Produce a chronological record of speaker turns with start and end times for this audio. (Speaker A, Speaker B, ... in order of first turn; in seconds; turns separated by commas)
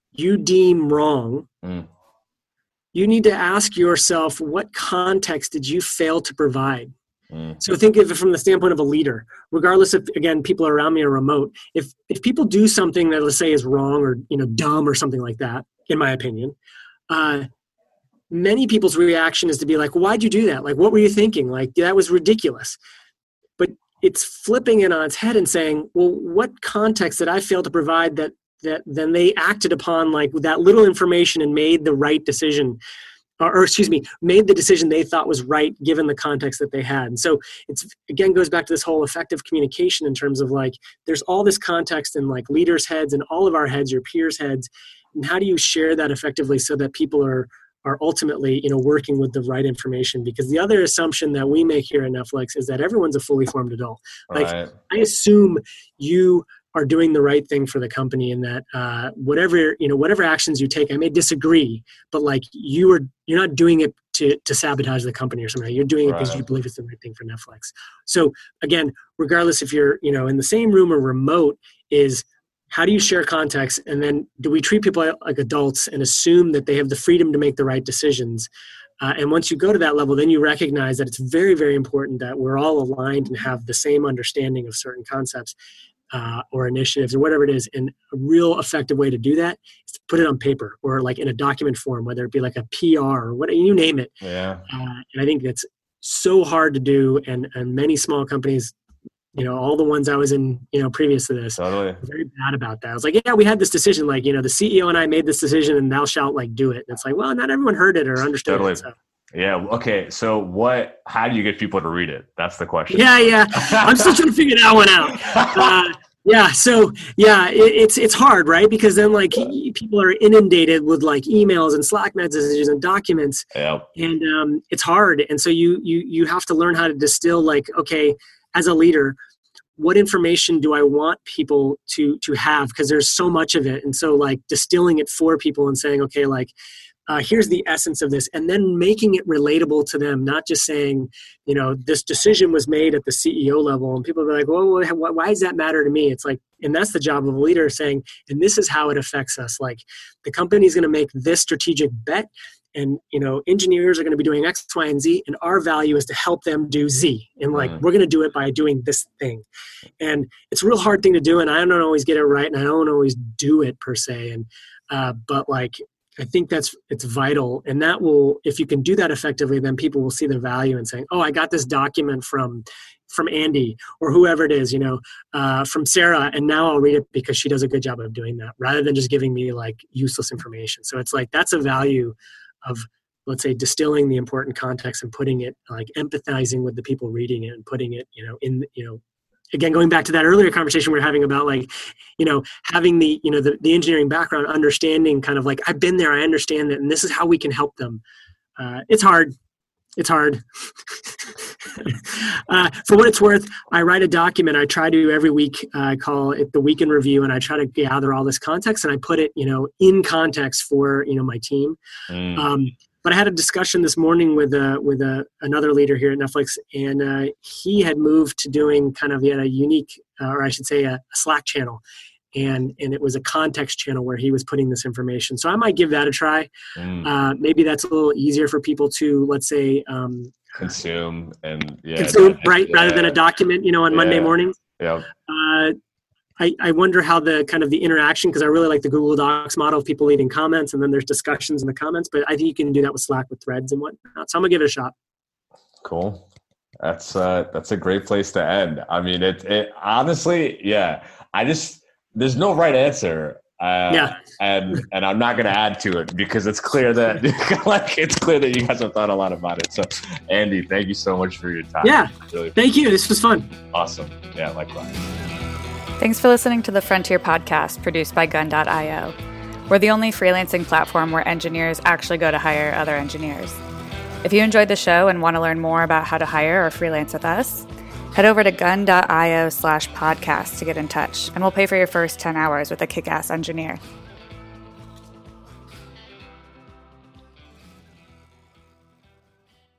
Speaker A: 0.1-1.5, Speaker B: 1.6-1.9, Speaker A: 2.9-6.9, Speaker B: 7.3-7.6, Speaker A: 7.6-16.5, Speaker A: 17.1-17.5, Speaker A: 18.3-22.8, Speaker A: 23.6-32.8, Speaker A: 33.4-78.5, Speaker B: 54.3-54.7, Speaker B: 66.0-66.4, Speaker A: 79.0-85.5, Speaker A: 86.1-94.1, Speaker B: 94.2-94.6, Speaker A: 94.7-98.7, Speaker A: 99.3-108.9, Speaker B: 101.5-102.0, Speaker B: 108.5-108.8, Speaker B: 109.3-114.1, Speaker A: 112.9-123.4, Speaker B: 115.2-115.7, Speaker B: 123.5-123.9, Speaker A: 124.0-129.2, Speaker A: 129.8-136.5, Speaker A: 137.1-159.4, Speaker A: 160.0-189.0, Speaker A: 189.5-198.0, Speaker A: 198.6-199.3, Speaker A: 200.0-211.8, Speaker B: 212.1-212.4, Speaker A: 212.3-221.8, Speaker A: 222.3-226.5, Speaker B: 226.8-227.1, Speaker A: 227.0-230.7, Speaker B: 230.6-233.2, Speaker A: 232.0-234.6, Speaker B: 233.9-235.1, Speaker A: 235.2-235.7, Speaker A: 236.4-244.9, Speaker B: 245.8-246.2, Speaker B: 246.8-262.6, Speaker A: 253.9-254.2, Speaker A: 261.8-263.5, Speaker B: 263.7-265.1, Speaker C: 266.0-269.1, Speaker C: 269.7-273.6, Speaker C: 274.2-283.8